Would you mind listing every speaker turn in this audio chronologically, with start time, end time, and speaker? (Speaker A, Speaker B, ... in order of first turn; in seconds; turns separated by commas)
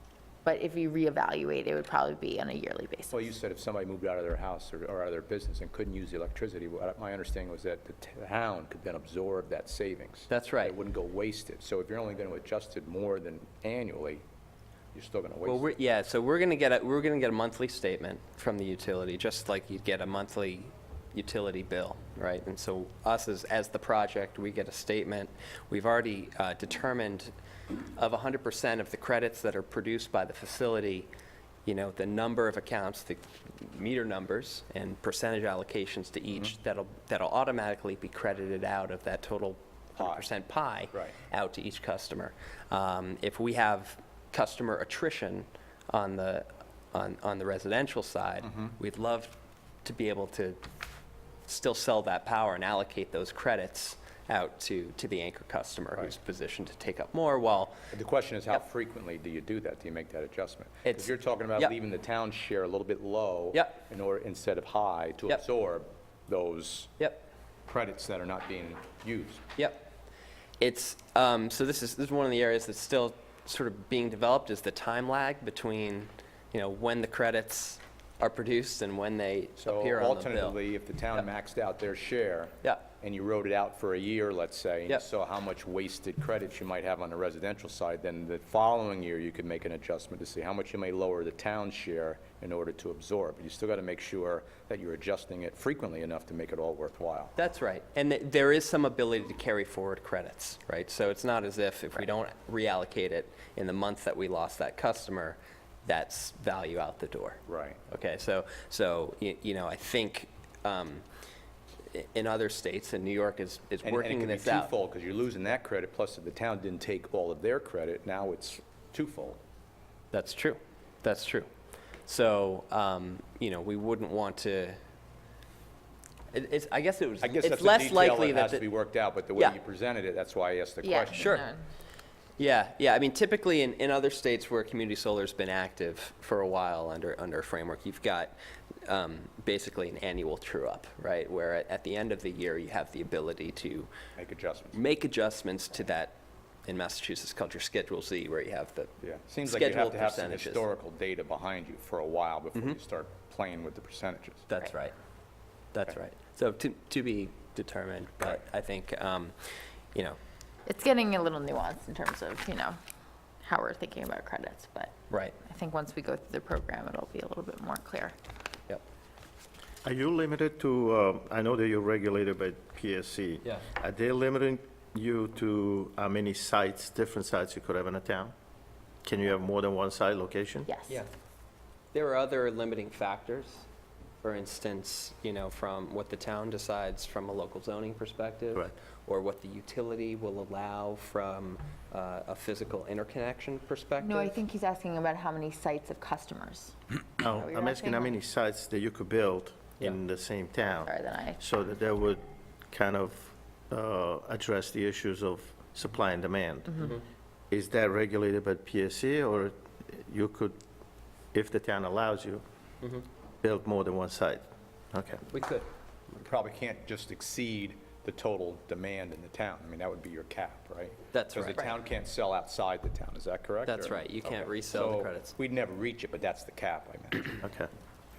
Speaker A: 0.4-3.3, Speaker B: 3.1-14.2, Speaker C: 10.3-10.8, Speaker B: 14.9-15.7, Speaker C: 15.4-27.3, Speaker C: 28.0-31.1, Speaker C: 31.6-49.3, Speaker B: 40.0-40.3, Speaker B: 48.4-48.7, Speaker C: 49.8-50.6, Speaker C: 51.5-57.8, Speaker B: 57.9-66.9, Speaker C: 60.8-61.7, Speaker C: 63.5-63.8, Speaker C: 67.0-67.2, Speaker B: 67.7-69.5, Speaker C: 69.6-69.9, Speaker C: 70.6-80.6, Speaker B: 79.6-97.3, Speaker C: 97.4-111.0, Speaker B: 107.5-107.8, Speaker C: 111.9-114.7, Speaker B: 113.8-119.4, Speaker C: 120.1-121.5, Speaker C: 122.0-124.8, Speaker C: 126.3-128.7, Speaker B: 127.2-131.5, Speaker A: 130.8-131.7, Speaker C: 131.1-131.5, Speaker C: 132.4-138.3, Speaker C: 138.9-143.9, Speaker B: 144.2-144.8, Speaker C: 144.7-150.7, Speaker B: 149.0-154.5, Speaker C: 154.5-154.9, Speaker C: 155.7-159.3, Speaker A: 160.7-162.8, Speaker A: 163.4-168.2, Speaker C: 165.1-165.4, Speaker D: 169.8-178.3, Speaker D: 179.0-180.7, Speaker A: 180.7-181.0, Speaker C: 181.9-183.7, Speaker C: 184.2-194.4, Speaker A: 194.0-198.2, Speaker D: 197.2-206.9, Speaker A: 200.7-201.4, Speaker D: 207.5-210.6, Speaker D: 211.3-212.4, Speaker D: 213.4-215.2, Speaker C: 215.3-215.7, Speaker B: 216.2-227.4, Speaker C: 221.1-221.7, Speaker C: 223.7-225.3, Speaker D: 227.4-227.7